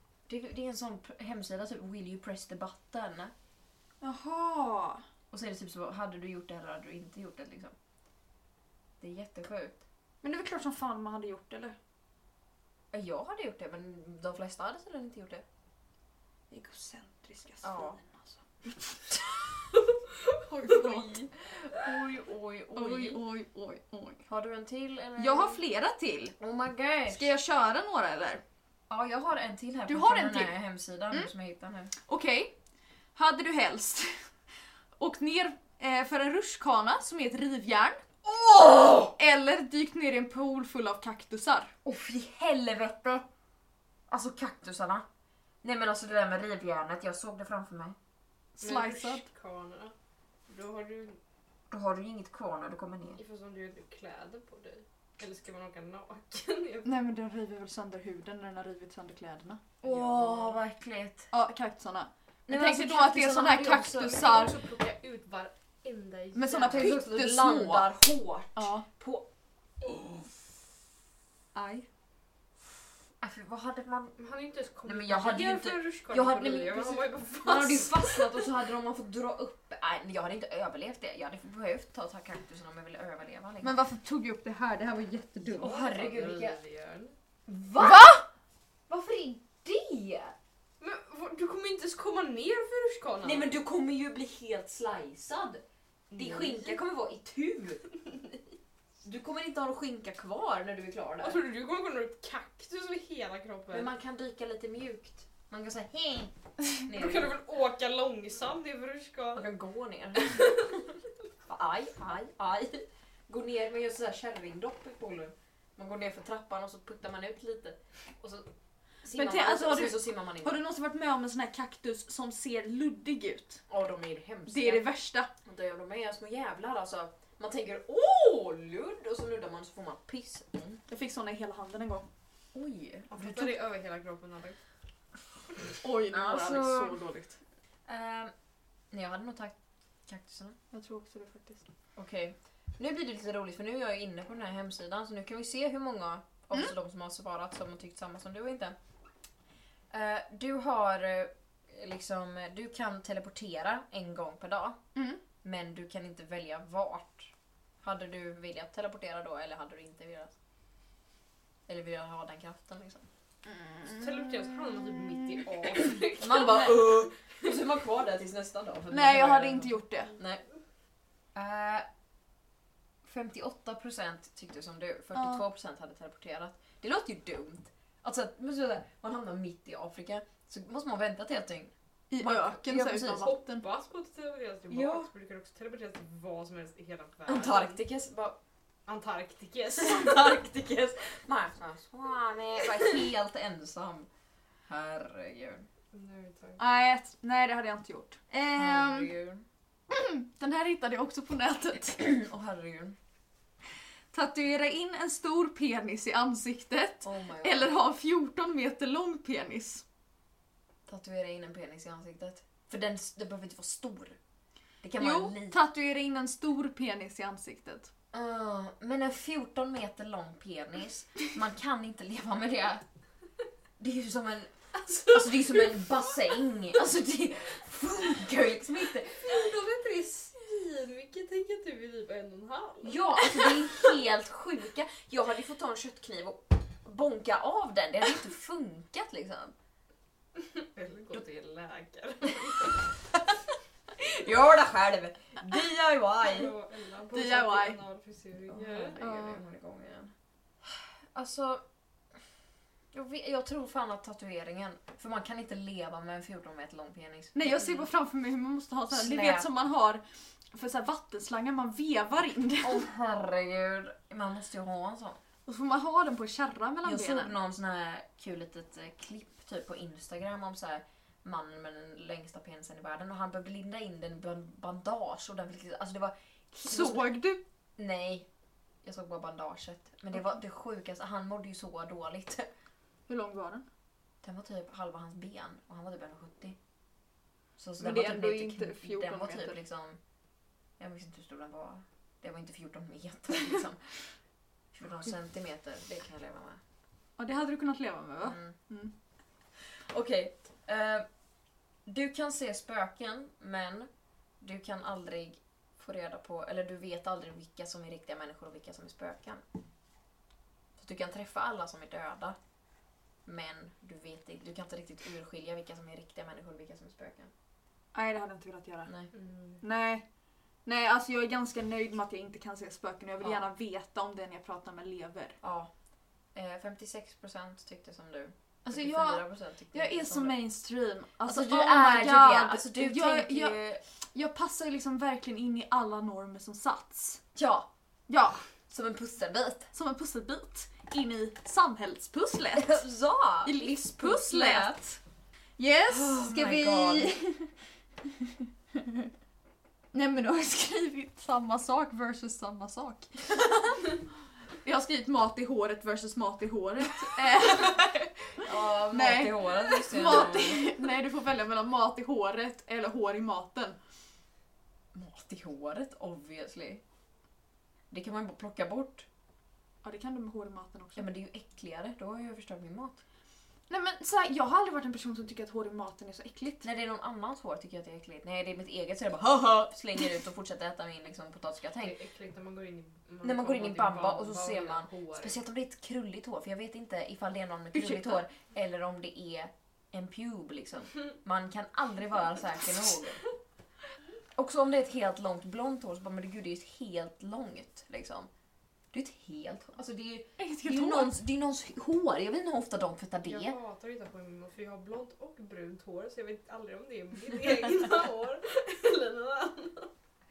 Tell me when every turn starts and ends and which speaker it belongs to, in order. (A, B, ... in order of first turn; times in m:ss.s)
0:00.3-0:03.3 A
0:04.0-0:05.0 B
0:05.3-0:07.7 A
0:09.0-0:09.8 A
0:10.2-0:11.8 B
0:12.9-0:15.4 A
0:16.5-0:19.0 B
0:17.6-0:18.0 A
0:20.4-0:21.3 B
0:20.7-0:23.2 A
0:22.7-0:24.2 B
0:24.3-0:25.6 A
0:25.2-0:26.4 B
0:26.4-0:27.3 A
0:27.1-0:28.4 B
0:28.9-0:31.9 A
0:29.9-0:30.6 B
0:32.1-0:32.5 B
0:33.2-0:34.2 B
0:35.0-0:38.0 B
0:38.2-0:39.2 A
0:39.2-0:41.7 B
0:41.8-0:43.3 A
0:44.1-0:45.1 A
0:45.6-0:48.0 A
0:48.6-0:49.2 B
0:48.6-0:49.9 C
0:50.5-0:51.2 C
0:51.7-0:53.2 A
0:53.2-0:56.9 C
0:56.8-1:00.5 B
0:59.8-1:01.3 A
1:01.3-1:04.6 B
1:02.5-1:04.5 A
1:04.2-1:06.9 C
1:06.4-1:07.9 B
1:06.6-1:09.3 A
1:08.6-1:08.8 B
1:09.8-1:10.3 A
1:11.6-1:11.9 B
1:13.2-1:14.2 A
1:14.2-1:18.5 C
1:14.9-1:23.8 A
1:23.6-1:25.7 B
1:25.6-1:26.6 A
1:25.6-1:27.1 C
1:27.5-1:28.2 A
1:27.8-1:28.2 B
1:28.9-1:30.4 A
1:30.8-1:33.5 C
1:33.2-1:37.8 A
1:36.1-1:36.8 C
1:39.0-1:41.4 A
1:41.2-1:43.9 C
1:43.7-1:46.3 A
1:46.8-1:47.3 A
1:46.9-1:49.5 C
1:49.4-1:50.8 A
1:50.4-1:50.6 C
1:51.5-1:58.5 A
1:59.0-2:00.6 A
1:59.1-2:03.6 B
2:03.7-2:04.9 A
2:04.5-2:05.3 B
2:05.4-2:10.8 A
2:10.9-2:12.1 B
2:12.5-2:13.6 A
2:13.1-2:14.6 C
2:15.8-2:17.4 B
2:16.1-2:17.0 A
2:17.9-2:18.3 A
2:18.9-2:19.6 A
2:20.1-2:20.6 A
2:20.7-2:21.6 B
2:22.0-2:28.8 A
2:29.9-2:34.8 A
2:35.0-2:35.2 B
2:35.4-2:37.3 A
2:37.8-2:40.3 A
2:41.7-2:43.1 A
2:43.5-2:44.2 B
2:43.9-2:47.5 C
2:46.2-2:50.4 A
2:48.9-2:50.1 B
2:51.4-2:51.9 A
2:53.0-3:03.3 A
2:55.2-2:55.4 B
3:02.1-3:03.7 B
3:03.1-3:07.8 C
3:04.7-3:05.1 A
3:07.3-3:08.4 A
3:08.9-3:10.4 C
3:09.8-3:14.1 A
3:14.7-3:15.7 A
3:15.9-3:16.6 C
3:16.6-3:19.1 B
3:18.6-3:19.4 A
3:19.9-3:22.0 B
3:22.0-3:23.0 A
3:24.1-3:29.8 B
3:27.0-3:27.7 A
3:30.9-3:34.2 A
3:34.8-3:35.6 A
3:35.0-3:37.9 B
3:38.1-3:42.8 A
3:43.8-3:44.5 A
3:44.8-3:45.7 C
3:45.1-3:49.4 A
3:49.2-3:53.9 C
3:52.8-3:59.5 A
4:00.4-4:02.9 C
4:04.0-4:06.5 A
4:06.2-4:09.0 C
4:07.1-4:07.8 B
4:08.5-4:10.1 A
4:09.0-4:09.4 B
4:11.1-4:11.6 A
4:12.9-4:17.9 A
4:17.4-4:22.9 B
4:18.9-4:19.5 A
4:22.6-4:25.2 A
4:25.5-4:27.4 B
4:26.8-4:37.2 A
4:36.6-4:37.4 B
4:37.8-4:38.3 A
4:38.8-4:42.5 A
4:43.1-4:43.7 B
4:44.2-4:46.6 A
4:47.6-4:50.0 A
4:47.8-4:49.6 B
4:50.8-4:53.9 A
4:54.7-4:56.6 A
4:57.2-4:58.9 B
4:58.2-4:58.6 A
4:59.9-5:01.1 A
5:01.9-5:03.9 A
5:04.4-5:09.4 A
5:10.8-5:12.4 A
5:13.2-5:17.3 A
5:17.9-5:18.9 B
5:19.1-5:19.6 C
5:19.6-5:20.0 B
5:20.6-5:25.4 B
5:23.2-5:23.5 A
5:25.4-5:25.7 A
5:26.4-5:30.4 A
5:28.7-5:33.6 B
5:31.2-5:33.8 A
5:34.1-5:37.2 B
5:37.4-5:37.7 A
5:38.1-5:38.4 B
5:38.7-5:39.7 A
5:39.7-5:42.8 B
5:42.6-5:44.8 A
5:43.4-5:45.0 B
5:45.6-5:47.5 B
5:45.9-5:47.2 A
5:48.2-5:49.1 B
5:49.9-5:53.8 B
5:54.6-5:58.0 B
5:58.4-6:00.7 A
5:58.9-6:03.8 B
6:04.9-6:06.8 A
6:07.9-6:09.1 A
6:09.8-6:11.1 B
6:11.0-6:13.0 A
6:13.7-6:16.7 B
6:16.6-6:22.0 A
6:21.8-6:25.4 C
6:23.2-6:33.2 A
6:27.7-6:28.2 B
6:34.4-6:38.3 A
6:38.9-6:43.6 A
6:40.4-6:41.2 B
6:43.2-6:49.9 C